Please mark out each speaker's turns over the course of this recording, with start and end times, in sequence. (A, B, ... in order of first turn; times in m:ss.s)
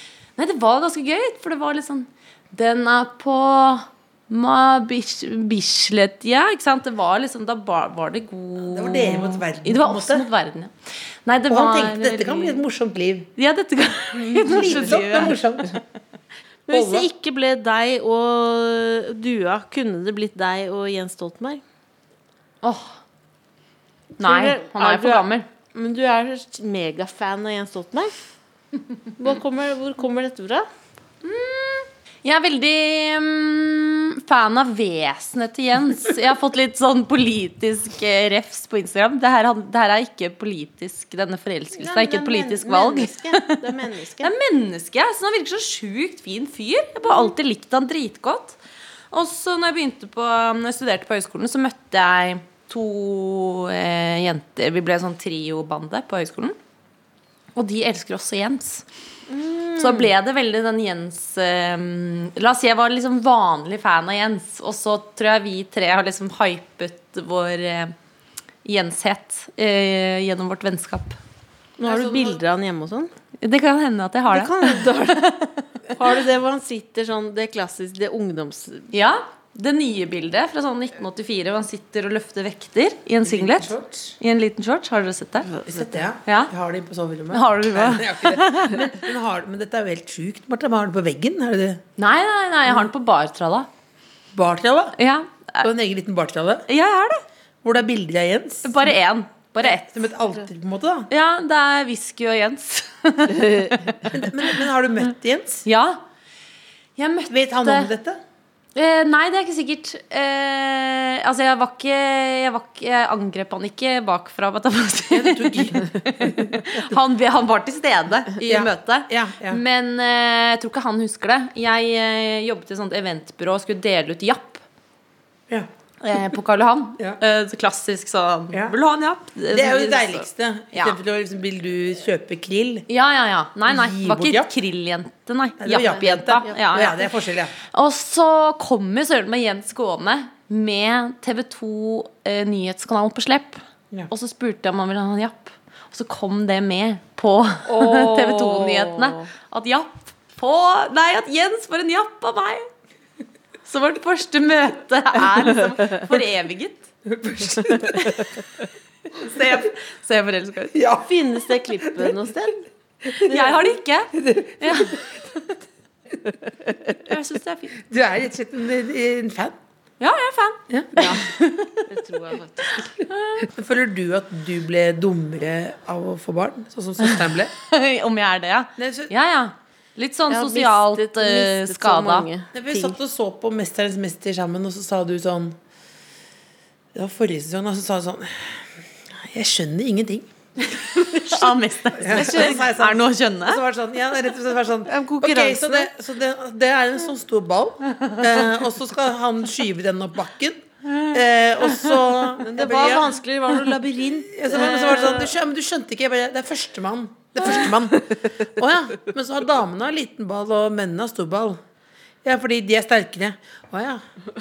0:00.4-0:10.7 A
0:08.6-0:10.3 B
0:11.2-0:12.6 A
0:11.5-0:13.3 B
0:13.4-0:15.4 A
0:14.2-0:15.8 B
0:16.7-0:21.6 C
0:16.7-0:17.1 B
0:22.6-0:23.0 A
0:24.2-0:28.1 C
0:24.2-0:25.4 A
0:29.2-0:30.7 C
0:31.2-0:43.7 A
0:41.7-0:44.3 C
0:44.2-0:48.6 A
0:49.1-0:56.6 A
0:57.5-0:58.8 A
0:59.3-1:00.1 C
0:59.8-1:07.9 A
1:08.6-1:11.2 A
1:11.8-1:13.1 C
1:11.8-1:12.4 B
1:13.4-1:15.6 A
1:14.3-1:15.3 C
1:15.9-1:18.9 C
1:18.9-1:25.5 A
1:23.2-1:24.1 B
1:25.5-1:26.0 C
1:25.6-1:31.8 B
1:26.2-1:26.5 A
1:27.3-1:29.1 A
1:32.0-1:33.7 A
1:34.3-1:35.0 B
1:35.0-1:35.7 A
1:35.6-1:36.6 B
1:36.7-1:37.2 A
1:37.6-1:38.9 B
1:38.6-1:40.1 A
1:39.6-1:41.1 B
1:41.1-1:44.5 A
1:44.0-1:45.6 B
1:45.6-1:46.0 A
1:47.0-1:47.9 A
1:47.3-1:48.2 B
1:48.7-2:04.6 A
1:55.1-1:57.0 B
1:58.4-1:59.6 B
2:06.0-2:11.0 A
2:08.5-2:08.8 B
2:09.5-2:12.9 B
2:12.9-2:17.1 A
2:13.7-2:14.5 B
2:15.6-2:17.5 B
2:16.5-2:16.9 C
2:17.7-2:32.7 A
2:27.7-2:28.9 B
2:29.0-2:29.2 C
2:33.6-2:36.9 A
2:37.0-2:38.3 B
2:37.9-2:38.2 A
2:39.1-2:40.7 A
2:40.7-2:41.1 B
2:41.0-2:42.6 C
2:41.6-2:42.2 B
2:43.0-2:43.6 B
2:43.2-2:45.0 A
2:44.1-2:45.2 B
2:47.0-2:47.8 A
2:47.8-2:49.6 B
2:50.0-2:51.9 A
2:50.7-2:51.2 B
2:51.0-2:51.3 C
2:51.8-2:52.9 C
2:53.1-2:53.5 A
2:53.4-2:57.5 B
2:57.0-3:02.2 A
2:58.8-2:59.1 B
3:00.3-3:03.0 C
3:02.5-3:05.6 B
3:06.9-3:10.3 B
3:10.6-3:13.6 A
3:11.9-3:31.6 B
3:12.0-3:12.7 C
3:14.9-3:15.9 C
3:22.0-3:25.3 C
3:27.4-3:27.7 C
3:32.2-3:34.0 B